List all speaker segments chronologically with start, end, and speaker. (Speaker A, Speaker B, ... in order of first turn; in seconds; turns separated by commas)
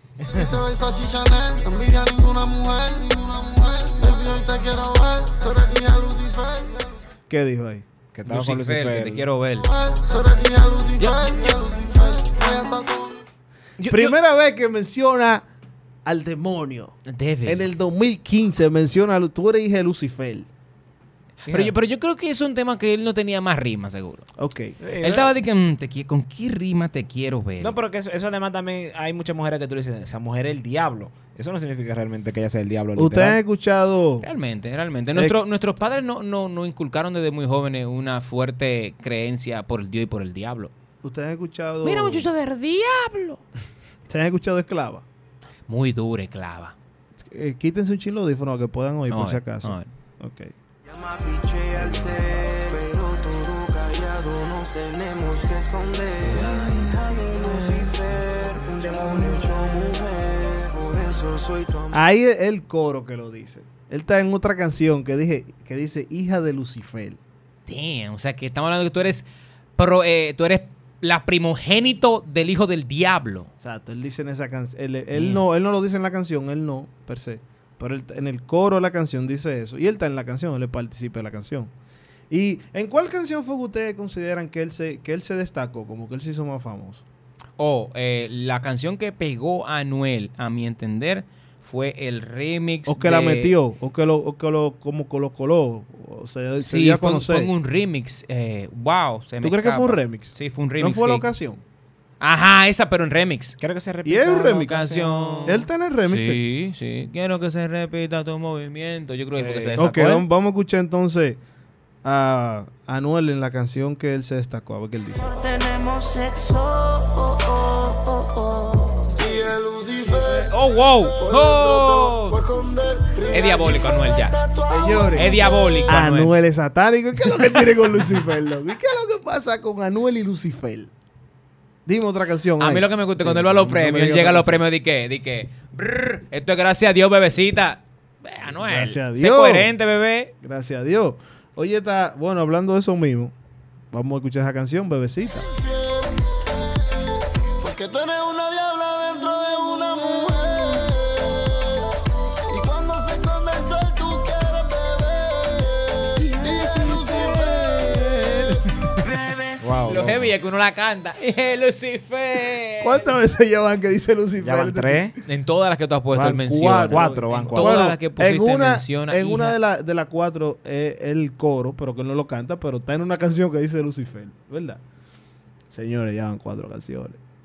Speaker A: 0.2-7.0, Speaker B: 7.3-7.9, Speaker C: 8.1-9.3, Speaker D: 8.3-9.7, Speaker A: 9.6-13.2, Speaker D: 11.0-11.6, Speaker D: 13.8-14.2, Speaker B: 13.9-15.5, Speaker B: 16.1-20.5, Speaker D: 17.1-17.7, Speaker D: 21.4-24.3, Speaker C: 21.5-21.7, Speaker B: 24.4-24.8, Speaker C: 24.8-25.3, Speaker D: 25.0-27.8, Speaker C: 27.6-33.4, Speaker B: 33.0-34.3, Speaker D: 34.2-40.7, Speaker B: 41.0-42.3, Speaker D: 41.8-43.4, Speaker B: 44.1-45.0, Speaker D: 45.7-46.8, Speaker B: 47.2-50.5, Speaker D: 49.1-49.9, Speaker A: 50.9-61.9, Speaker B: 61.9-67.2, Speaker D: 67.7-69.3, Speaker D: 69.8-73.5, Speaker B: 73.6-81.7, Speaker D: 75.1-75.4, Speaker B: 82.3-87.0, Speaker D: 87.6-93.5, Speaker B: 92.9-97.5, Speaker D: 96.6-101.2, Speaker B: 99.4-101.6, Speaker D: 102.2-103.6, Speaker C: 103.6-105.6, Speaker B: 104.0-104.9, Speaker D: 104.6-110.3, Speaker B: 105.5-106.4, Speaker C: 109.3-109.8, Speaker B: 109.8-111.4, Speaker B: 112.0-115.6, Speaker A: 115.4-125.9, Speaker D: 120.3-122.4, Speaker D: 123.3-124.4, Speaker B: 124.7-130.9, Speaker D: 125.1-126.3, Speaker B: 131.9-134.6, Speaker D: 132.6-140.3, Speaker B: 138.6-139.7, Speaker B: 140.4-143.3, Speaker B: 143.9-145.5, Speaker A: 147.6-157.9, Speaker D: 156.2-159.1, Speaker C: 159.6-160.3, Speaker D: 159.8-163.1, Speaker B: 162.8-165.1, Speaker C: 164.4-165.2, Speaker D: 165.3-169.6, Speaker B: 166.1-174.8, Speaker C: 166.9-167.9, Speaker B: 175.7-177.2